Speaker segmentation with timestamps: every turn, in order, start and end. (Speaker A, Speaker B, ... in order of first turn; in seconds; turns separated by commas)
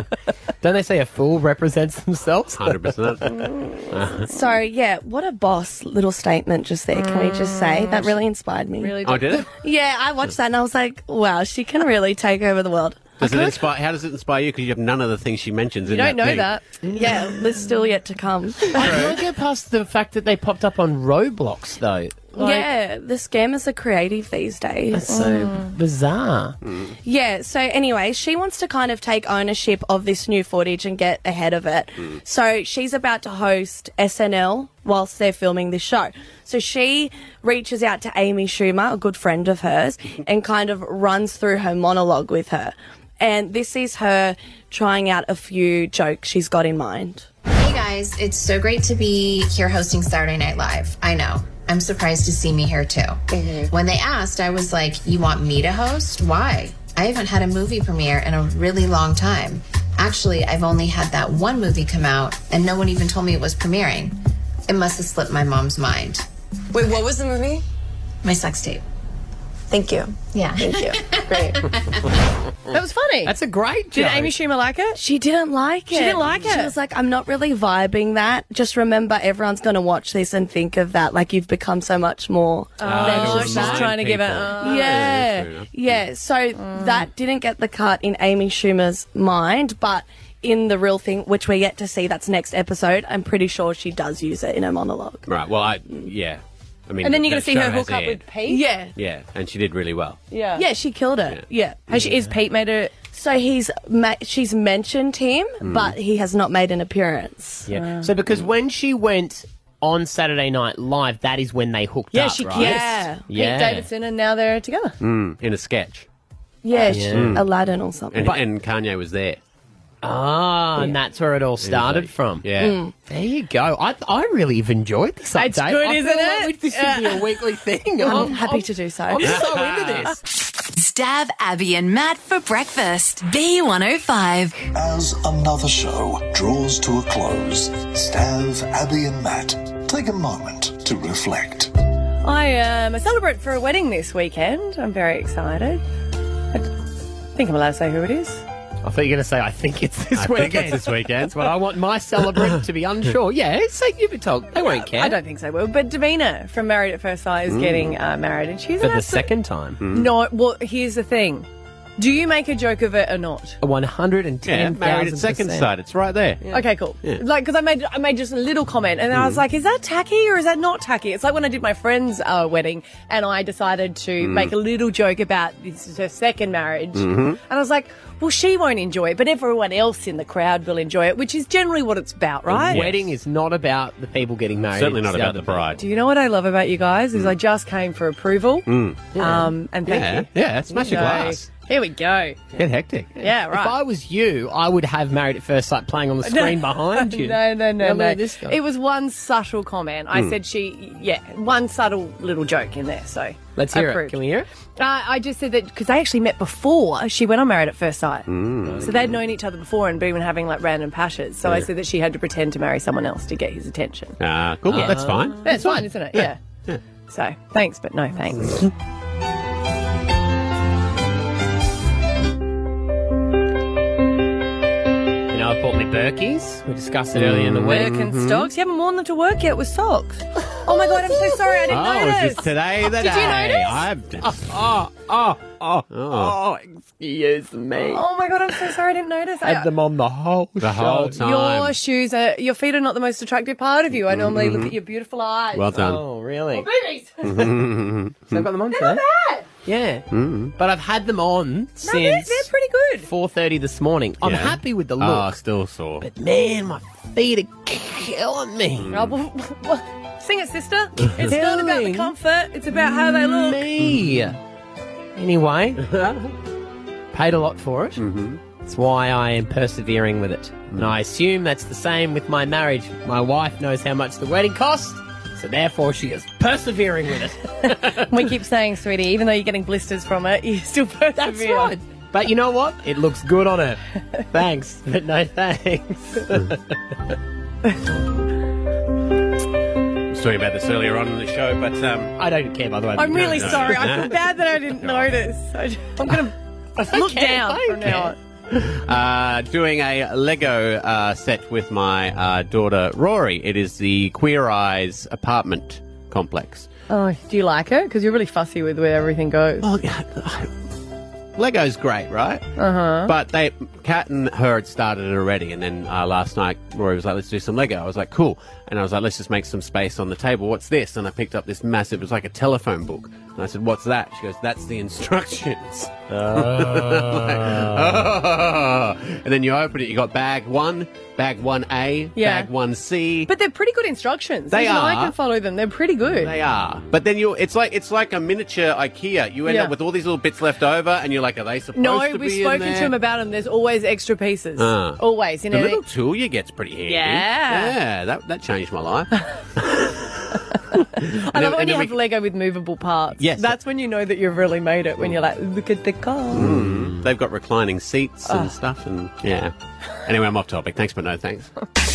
Speaker A: 0.6-3.0, Speaker B: 2.6-4.3, Speaker C: 4.2-13.4, Speaker D: 7.0-8.2, Speaker D: 8.8-9.5, Speaker B: 9.0-9.5, Speaker B: 13.2-16.6, Speaker D: 13.2-13.5, Speaker D: 15.9-16.6, Speaker C: 16.9-19.0, Speaker A: 18.7-22.4, Speaker B: 18.8-19.2, Speaker C: 22.3-25.1, Speaker D: 22.4-22.7, Speaker A: 24.9-26.6, Speaker D: 25.1-25.7, Speaker B: 26.6-26.9, Speaker C: 27.0-47.3, Speaker E: 47.5-64.2, Speaker E: 64.7-66.2, Speaker E: 68.2-68.8, Speaker E: 70.3-71.6, Speaker D: 72.7-73.4, Speaker A: 73.2-74.3, Speaker D: 73.9-75.0, Speaker C: 75.0-83.9, Speaker D: 75.9-76.7, Speaker D: 82.8-85.1, Speaker B: 82.8-86.0, Speaker C: 84.6-95.3, Speaker D: 86.6-87.0, Speaker B: 95.3-98.3, Speaker D: 97.0-98.7, Speaker C: 98.4-98.9, Speaker B: 99.0-100.2, Speaker D: 100.3-100.6, Speaker C: 100.5-101.8, Speaker D: 101.9-102.9, Speaker C: 103.1-107.7, Speaker B: 105.6-106.0, Speaker A: 107.7-113.9, Speaker D: 107.7-108.1, Speaker D: 112.1-115.0, Speaker C: 112.5-113.2, Speaker B: 115.0-116.1, Speaker C: 116.6-118.4, Speaker A: 116.9-117.4, Speaker B: 117.1-117.5, Speaker B: 118.1-119.4, Speaker A: 120.0-122.5, Speaker B: 121.6-122.8, Speaker C: 122.6-122.9, Speaker A: 123.1-130.2, Speaker D: 125.3-127.3, Speaker D: 128.0-128.7, Speaker C: 128.0-129.3, Speaker D: 129.2-130.1, Speaker B: 129.3-130.1, Speaker F: 130.8-134.7, Speaker G: 134.7-141.7, Speaker D: 142.2-145.8, Speaker D: 147.3-148.4, Speaker A: 148.8-155.2, Speaker B: 150.2-151.5, Speaker D: 154.6-159.3, Speaker B: 157.5-158.0, Speaker A: 158.8-159.8, Speaker B: 159.8-160.1, Speaker D: 159.9-161.5, Speaker D: 162.0-163.6, Speaker A: 163.6-165.7, Speaker B: 164.4-166.4, Speaker D: 166.5-182.9, Speaker B: 167.0-167.2, Speaker B: 169.1-169.4, Speaker B: 174.2-174.5, Speaker B: 176.9-177.4, Speaker B: 182.5-183.1, Speaker A: 182.7-185.8, Speaker B: 184.7-185.8, Speaker D: 185.8-192.4, Speaker B: 188.7-189.3, Speaker A: 189.2-189.5, Speaker B: 189.9-191.5, Speaker B: 192.6-193.1, Speaker D: 193.2-193.8, Speaker A: 193.5-198.6, Speaker D: 196.2-204.2, Speaker A: 203.6-204.5, Speaker D: 204.8-208.3, Speaker B: 208.3-209.0, Speaker A: 208.7-209.1, Speaker D: 208.8-214.2, Speaker B: 214.2-216.8, Speaker A: 214.7-215.6, Speaker D: 215.4-216.4, Speaker D: 217.1-218.7, Speaker A: 225.3-227.9, Speaker B: 227.1-228.5, Speaker D: 227.7-233.9, Speaker A: 230.6-231.7, Speaker B: 231.7-234.4, Speaker A: 234.2-238.6, Speaker B: 235.9-236.4, Speaker D: 237.9-239.7, Speaker A: 239.4-241.2, Speaker B: 240.6-241.8, Speaker D: 241.2-245.8, Speaker B: 244.1-244.8, Speaker B: 245.5-246.0, Speaker A: 245.7-246.7, Speaker D: 246.5-247.3, Speaker B: 247.2-248.2, Speaker A: 248.3-249.1, Speaker D: 248.7-249.5, Speaker A: 249.7-252.5, Speaker B: 250.1-250.6, Speaker D: 251.8-253.1, Speaker A: 253.0-255.4, Speaker B: 254.2-256.1, Speaker A: 256.0-258.9, Speaker B: 258.8-259.1, Speaker D: 258.9-263.7, Speaker B: 261.0-261.3, Speaker A: 261.1-262.1, Speaker A: 262.7-264.4, Speaker A: 265.1-265.9, Speaker B: 265.8-266.3, Speaker A: 267.1-268.0, Speaker B: 268.0-268.4, Speaker A: 268.6-278.3, Speaker D: 277.7-281.7, Speaker A: 281.2-287.1, Speaker B: 290.1-292.2, Speaker A: 292.2-294.1, Speaker D: 293.0-298.2, Speaker B: 293.1-295.2, Speaker A: 296.9-298.1, Speaker B: 298.5-306.7, Speaker D: 306.9-309.6, Speaker B: 309.6-310.5, Speaker B: 311.4-312.5, Speaker D: 312.6-313.1, Speaker B: 313.0-333.3, Speaker A: 326.6-327.2, Speaker D: 332.2-332.5, Speaker D: 333.3-336.3, Speaker B: 334.5-335.1, Speaker B: 336.2-342.9, Speaker D: 339.5-339.8, Speaker D: 341.8-345.8, Speaker B: 344.6-350.2, Speaker D: 346.9-347.8, Speaker D: 350.5-356.5, Speaker B: 351.0-352.0, Speaker B: 353.2-353.6, Speaker B: 356.3-359.5, Speaker D: 358.3-358.5, Speaker B: 360.1-361.5